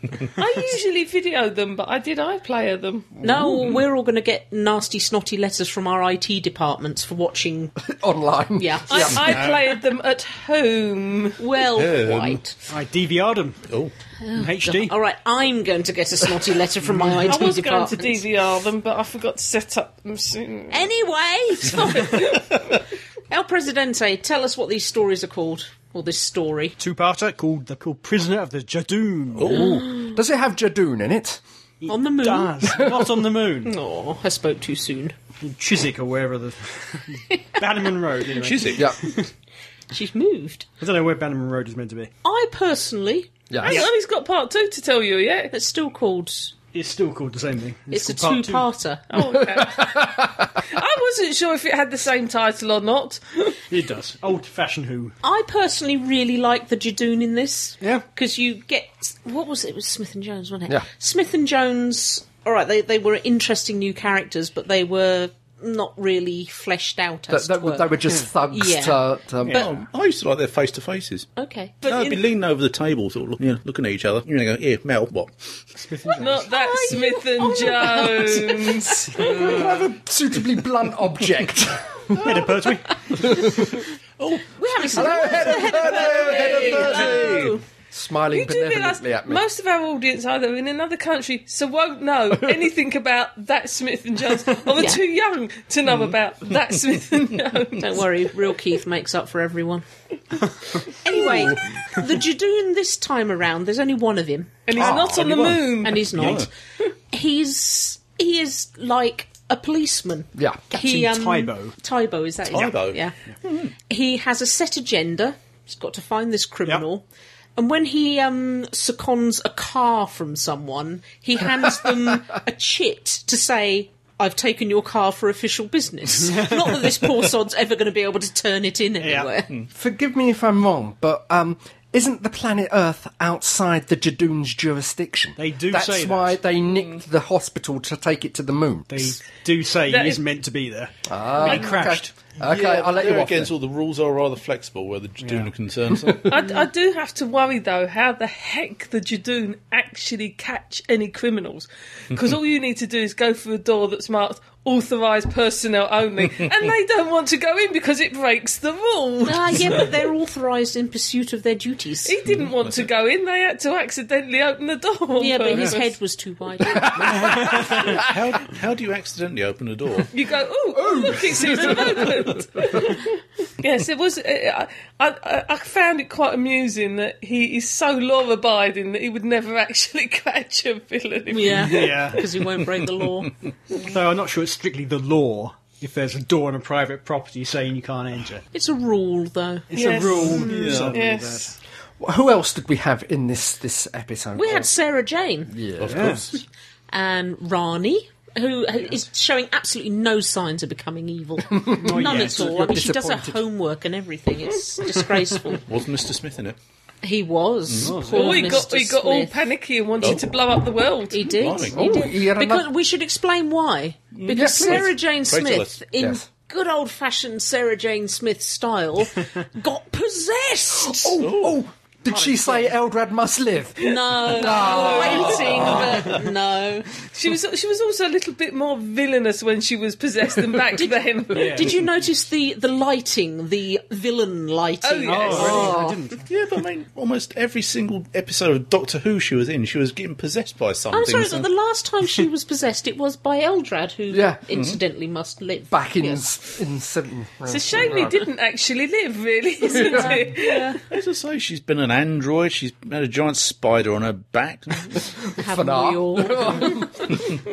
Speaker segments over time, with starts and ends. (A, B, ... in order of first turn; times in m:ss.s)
0:00.4-0:03.1 A
0:03.2-0:07.8 B
0:03.3-0:03.8 C
0:07.8-0:09.5 D
0:08.6-0:09.3 B
0:08.9-0:11.4 A
0:11.4-0:12.5 B
0:11.7-0:12.4 C
0:12.7-0:13.6 E
0:14.2-0:18.2 B
0:14.3-0:15.0 E
0:17.2-0:20.8 A
0:20.7-0:22.4 B
0:21.6-0:22.7 A
0:23.3-0:26.8 B
0:26.8-0:29.7 E
0:29.3-0:29.8 C
0:29.6-0:30.1 B
0:29.7-0:31.4 D
0:31.8-0:33.7 E
0:31.9-0:32.8 B
0:33.6-0:35.1 B
0:35.4-0:39.3 E
0:38.3-0:38.9 C
0:39.9-0:40.6 B
0:40.8-0:42.1 E
0:42.2-0:43.7 B
0:43.5-0:43.9 D
0:43.6-0:45.5 A
0:45.5-0:46.5 B
0:46.7-0:48.7 E
0:47.9-0:49.0 B
0:49.1-0:53.6 A
0:49.5-0:50.5 D
0:53.7-0:55.2 E
0:55.2-1:09.7 B
1:07.3-1:09.7 D
1:09.5-1:11.3 C
1:11.4-1:11.8 B
1:11.8-1:12.2 A
1:11.8-1:15.6 C
1:15.8-1:16.5 E
1:16.2-1:19.5 A
1:16.4-1:19.4 B
1:19.1-1:22.4 D
1:22.2-1:22.7 C
1:22.2-1:23.6 E
1:23.2-1:23.5 D
1:24.2-1:27.6 C
1:24.6-1:27.6 B
1:24.9-1:27.4 D
1:26.8-1:27.2 A
1:27.9-1:29.4 D
1:28.3-1:38.1 A
1:34.8-1:35.0 B
1:35.9-1:36.1 C
1:37.8-1:39.8 B
1:40.8-1:44.7 B
1:44.7-1:46.1 A
1:44.7-1:46.5 C
1:45.8-1:46.5 B
1:46.1-1:46.4 E
1:47.1-1:53.1 B
1:50.3-1:50.6 D
1:50.7-1:51.8 E
1:52.5-1:53.7 C
1:53.9-1:57.0 B
1:57.6-2:09.5 B
2:06.3-2:06.9 E
2:09.0-2:09.3 E
2:09.7-2:19.2 D
2:15.4-2:16.4 E
2:18.9-2:22.2 E
2:19.9-2:20.2 A
2:21.1-2:23.5 D
2:22.4-2:26.3 C
2:25.2-2:25.5 E
2:26.0-2:26.4 D
2:26.3-2:39.8 A
2:39.2-2:42.2 B
2:42.0-2:45.9 A
2:42.3-2:42.8 C
2:45.2-2:47.3 B
2:46.9-2:47.9 D
2:47.0-2:50.1 C
2:47.2-2:47.9 E
2:50.1-3:02.2 A
2:50.7-2:52.8 D
2:51.5-2:52.1 C
3:01.3-3:03.3 B
3:01.6-3:02.2 E
3:03.8-3:08.4 E
3:08.5-3:09.7 B
3:09.7-3:11.5 E
3:09.7-3:11.5 A
3:10.3-3:11.0 C
3:12.0-3:14.7 D
3:14.3-3:15.6 B
3:15.5-3:16.2 D
3:15.8-3:16.1 C
3:15.8-3:16.3 E
3:16.9-3:25.6 B
3:21.5-3:23.4 D
3:21.8-3:22.5 E
3:25.6-3:26.6 C
3:27.0-3:29.4 B
3:27.7-3:28.0 C
3:27.8-3:28.6 E
3:28.1-3:31.4 A
3:30.0-3:30.3 C
3:31.1-3:41.2 B
3:31.4-3:31.9 C
3:31.7-3:32.7 D
3:34.1-3:35.8 C
3:34.3-3:34.9 D
3:36.0-3:36.2 D
3:40.7-3:46.0 D
3:41.2-3:41.6 C
3:42.1-3:42.7 B
3:43.8-3:46.9 B
3:43.8-3:46.0 A
3:47.0-3:51.7 A
3:50.8-3:55.9 B
3:51.3-3:51.8 E
3:54.8-3:55.8 A
3:55.0-3:56.2 E
3:56.2-4:01.5 C
4:00.9-4:06.2 B
4:04.1-4:04.4 D
4:04.5-4:04.8 C
4:05.7-4:08.2 D
4:07.5-4:10.7 A
4:09.7-4:10.8 B
4:10.9-4:15.0 C
4:15.4-4:16.8 B
4:15.4-4:17.1 D